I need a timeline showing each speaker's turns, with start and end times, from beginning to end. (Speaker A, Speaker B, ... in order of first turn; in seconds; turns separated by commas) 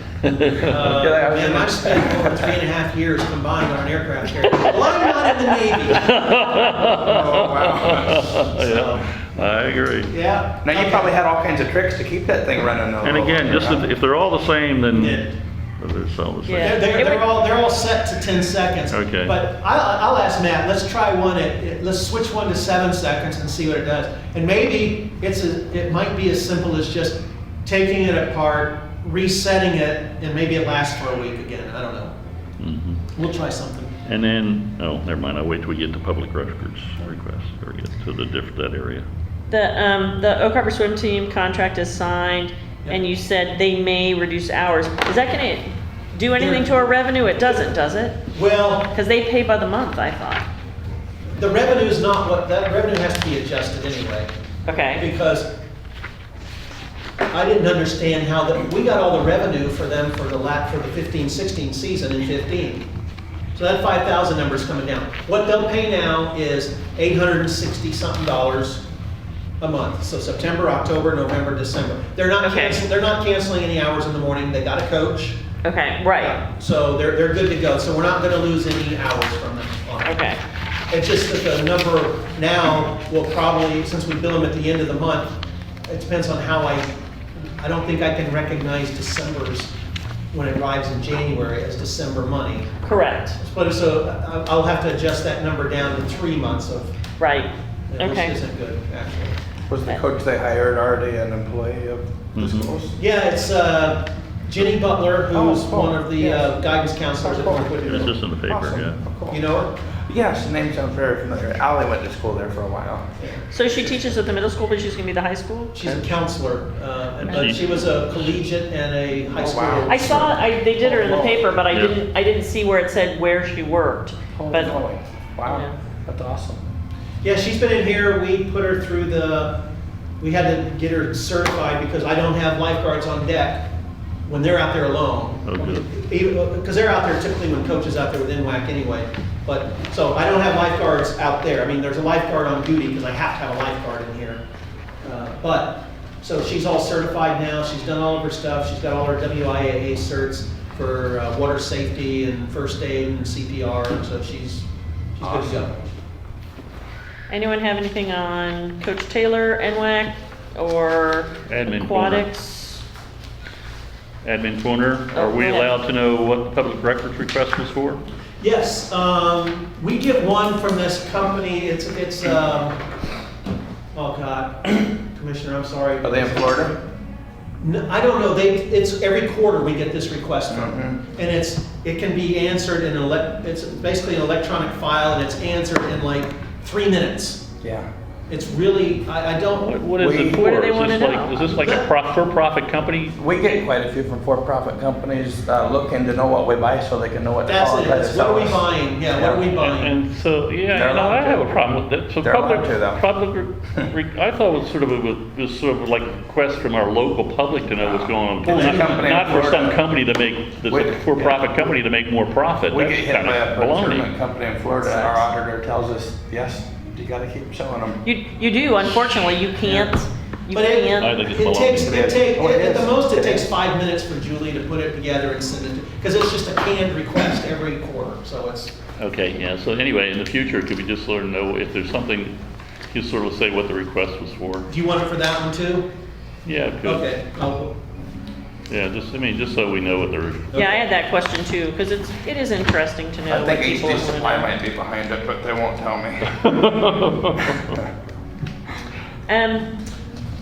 Speaker A: 0.2-0.7, Speaker B: 0.5-6.1, Speaker C: 0.8-2.5, Speaker D: 4.5-4.8, Speaker A: 5.9-10.1, Speaker C: 6.9-8.3, Speaker B: 8.4-9.1, Speaker B: 10.1-11.1, Speaker C: 10.6-13.9, Speaker A: 13.0-15.2, Speaker B: 14.9-15.3, Speaker A: 15.8-16.9, Speaker D: 16.4-17.2, Speaker B: 16.6-32.1, Speaker A: 18.9-19.4, Speaker A: 32.6-33.0, Speaker B: 33.1-33.9, Speaker A: 34.0-39.0, Speaker D: 39.5-48.3, Speaker B: 46.4-46.9, Speaker B: 48.3-48.9, Speaker D: 48.9-50.4, Speaker B: 51.4-54.3, Speaker D: 54.6-55.0, Speaker B: 55.0-55.5, Speaker B: 57.3-62.9, Speaker B: 63.5-68.8, Speaker B: 69.6-75.4, Speaker D: 72.4-72.8, Speaker D: 75.6-76.4, Speaker B: 76.2-80.2, Speaker D: 80.0-80.4, Speaker B: 80.9-85.3, Speaker B: 85.9-86.9, Speaker B: 87.6-89.7, Speaker B: 90.3-92.7, Speaker D: 92.8-93.4, Speaker B: 93.4-96.9, Speaker D: 97.2-98.3, Speaker B: 97.9-99.4, Speaker C: 99.7-103.0, Speaker A: 102.3-102.7, Speaker B: 103.0-108.2, Speaker C: 105.3-106.6, Speaker C: 107.2-109.4, Speaker A: 107.8-109.0, Speaker B: 109.3-109.7, Speaker C: 110.0-113.1, Speaker B: 113.2-113.4, Speaker D: 113.5-116.1, Speaker B: 115.7-120.3, Speaker A: 117.2-117.7, Speaker D: 117.3-117.8, Speaker C: 119.3-121.5, Speaker D: 119.9-124.8, Speaker A: 121.7-122.0, Speaker C: 124.3-126.6, Speaker D: 125.4-125.7, Speaker B: 127.2-129.6, Speaker B: 130.2-133.7, Speaker B: 134.2-144.4, Speaker A: 135.4-135.9, Speaker B: 145.0-154.7, Speaker B: 155.2-155.7, Speaker C: 155.2-155.6, Speaker D: 157.3-162.8, Speaker A: 161.4-162.3, Speaker A: 164.2-168.0, Speaker D: 165.1-165.7, Speaker B: 168.4-172.8, Speaker B: 173.9-176.7, Speaker C: 176.0-176.7, Speaker B: 177.6-187.4, Speaker C: 180.5-181.0, Speaker C: 187.6-187.9, Speaker B: 188.3-189.7, Speaker A: 189.5-193.2, Speaker C: 190.0-190.5, Speaker D: 190.2-191.7, Speaker B: 191.5-191.8, Speaker C: 193.2-199.5, Speaker B: 197.4-199.9, Speaker A: 199.6-214.1, Speaker C: 200.7-201.5, Speaker C: 202.2-203.0, Speaker C: 208.4-209.8, Speaker B: 208.5-209.2, Speaker C: 210.7-211.6, Speaker C: 212.7-218.0, Speaker D: 214.8-215.2, Speaker D: 218.0-221.3, Speaker B: 220.5-228.7, Speaker A: 221.0-222.0, Speaker C: 221.8-223.5, Speaker A: 229.0-232.4, Speaker A: 232.9-234.7, Speaker B: 234.7-235.9, Speaker A: 236.4-237.1, Speaker B: 236.8-237.7, Speaker A: 238.7-240.6, Speaker B: 240.5-240.9, Speaker D: 240.5-244.5, Speaker C: 243.3-246.4, Speaker A: 246.3-247.8, Speaker D: 249.3-249.7